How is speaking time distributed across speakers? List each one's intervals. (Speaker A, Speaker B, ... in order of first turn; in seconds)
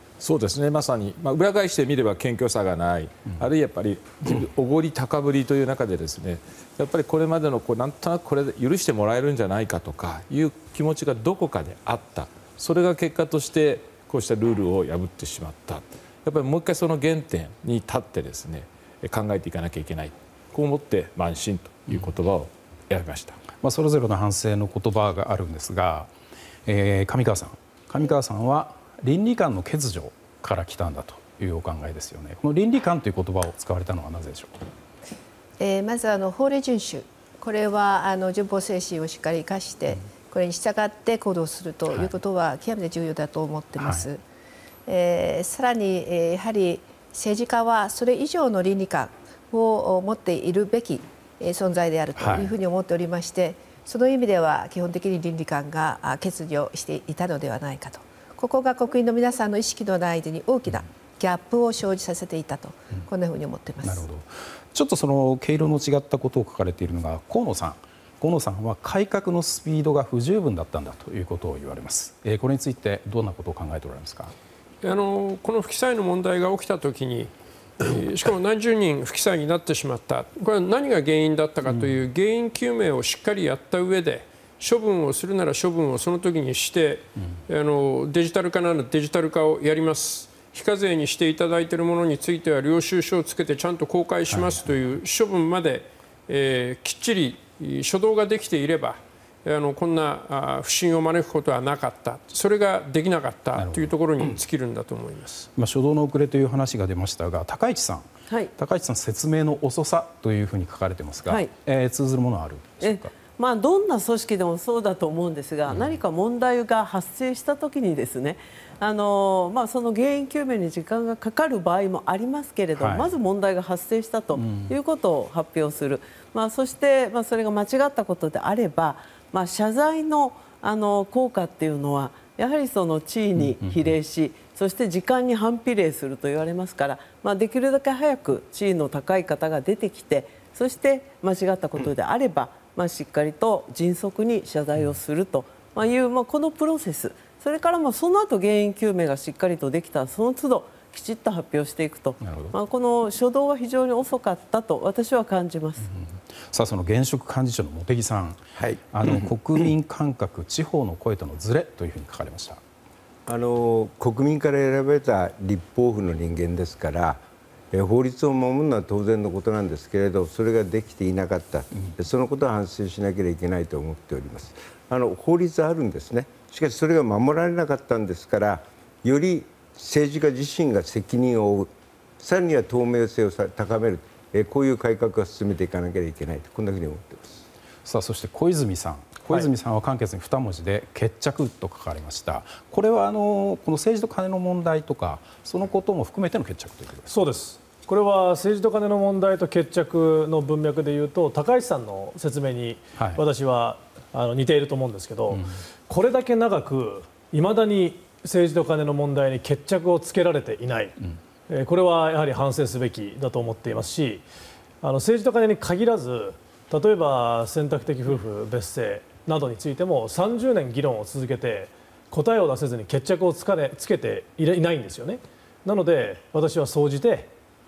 Speaker A: 0.2-23.4
Speaker B: 23.6-26.1, 26.7-34.5, 43.8-44.1, 52.2-52.5, 63.8-74.3, 81.7-82.0, 94.3-94.7, 103.6-104.4, 105.5-113.1, 115.7-116.0, 122.8-123.1, 124.3-124.8, 133.4-133.9, 152.2-152.6, 155.8-162.6, 187.8-197.2, 203.0-203.2, 205.3-205.6
Speaker C: 35.6-44.2, 44.9-64.1
Speaker D: 74.8-105.5
Speaker E: 111.3-111.5, 112.8-155.9
Speaker F: 158.6-158.8, 163.3-187.4
Speaker G: 197.1-211.0, 211.5-214.2, 214.8-227.3